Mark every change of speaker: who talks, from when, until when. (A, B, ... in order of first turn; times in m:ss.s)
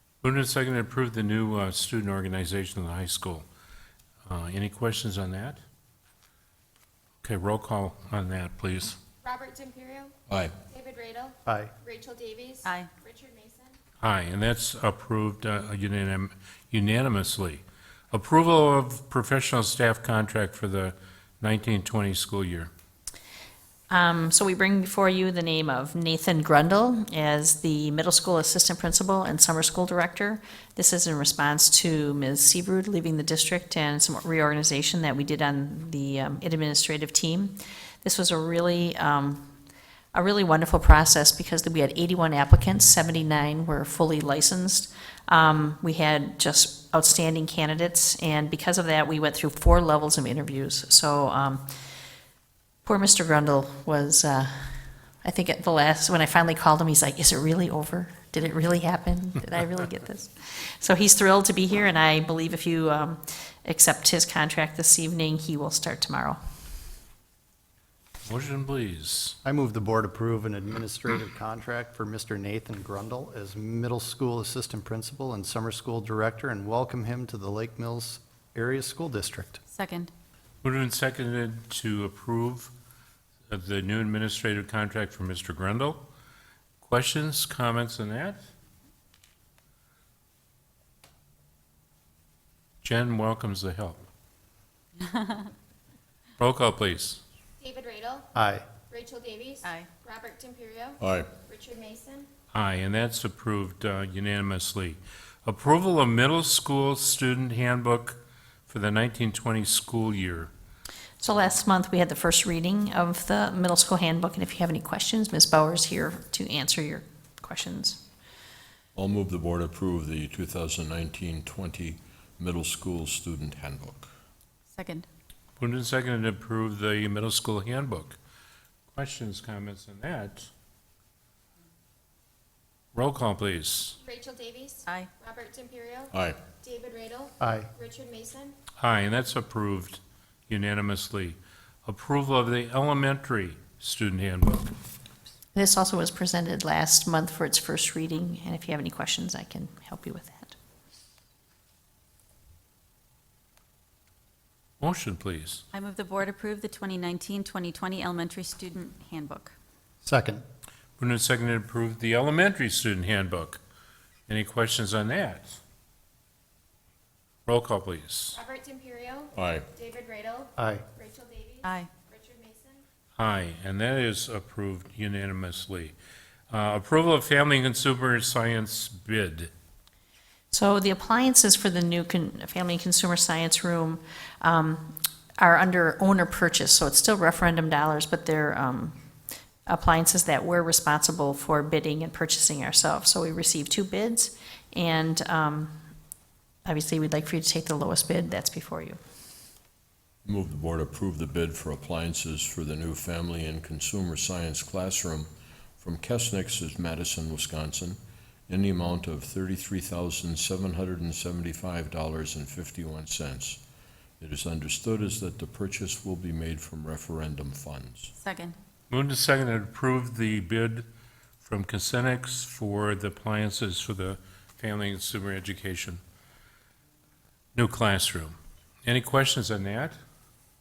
0:00.2-0:03.5 A
0:04.2-0:05.6 A
0:07.2-0:09.0 A
0:09.2-0:10.1 B
0:10.3-0:10.5 C
0:10.7-0:13.8 B
0:11.4-0:11.7 D
0:12.6-0:12.9 E
0:14.0-0:22.7 A
0:23.9-0:39.5 F
0:40.1-0:51.7 F
0:52.8-1:06.4 F
1:08.2-1:09.4 A
1:09.4-1:19.6 D
1:19.7-1:20.1 E
1:20.6-1:22.7 A
1:23.5-1:26.0 A
1:26.8-1:28.4 A
1:32.8-1:34.0 A
1:35.0-1:35.5 E
1:36.4-1:37.2 A
1:37.6-1:42.3 B
1:38.3-1:38.7 D
1:39.6-1:39.9 E
1:41.0-1:41.3 C
1:42.5-1:50.5 A
1:51.2-1:58.0 F
1:58.9-2:04.1 C
2:04.7-2:05.1 E
2:05.6-2:08.2 A
2:08.9-2:10.5 A
2:12.9-2:14.0 A
2:14.0-2:18.6 B
2:16.1-2:16.4 C
2:17.4-2:17.7 D
2:18.8-2:24.8 A
2:25.5-2:30.6 F
2:34.8-2:35.6 A
2:35.7-2:39.5 E
2:40.0-2:40.4 D
2:41.0-2:43.6 A
2:44.3-2:45.6 A
2:47.5-2:48.4 A
2:48.3-2:52.8 B
2:49.4-2:49.7 C
2:50.6-2:50.8 D
2:51.6-2:51.9 E
2:53.2-2:55.9 A
2:56.5-2:59.5 A
3:00.5-3:09.0 F
3:09.7-3:15.7 F
3:16.7-3:19.0 F
3:20.2-3:33.6 C
3:34.2-3:38.1 C
3:38.2-3:38.6 E
3:38.9-3:40.8 A
3:41.4-3:46.0 A
3:47.5-3:50.0 A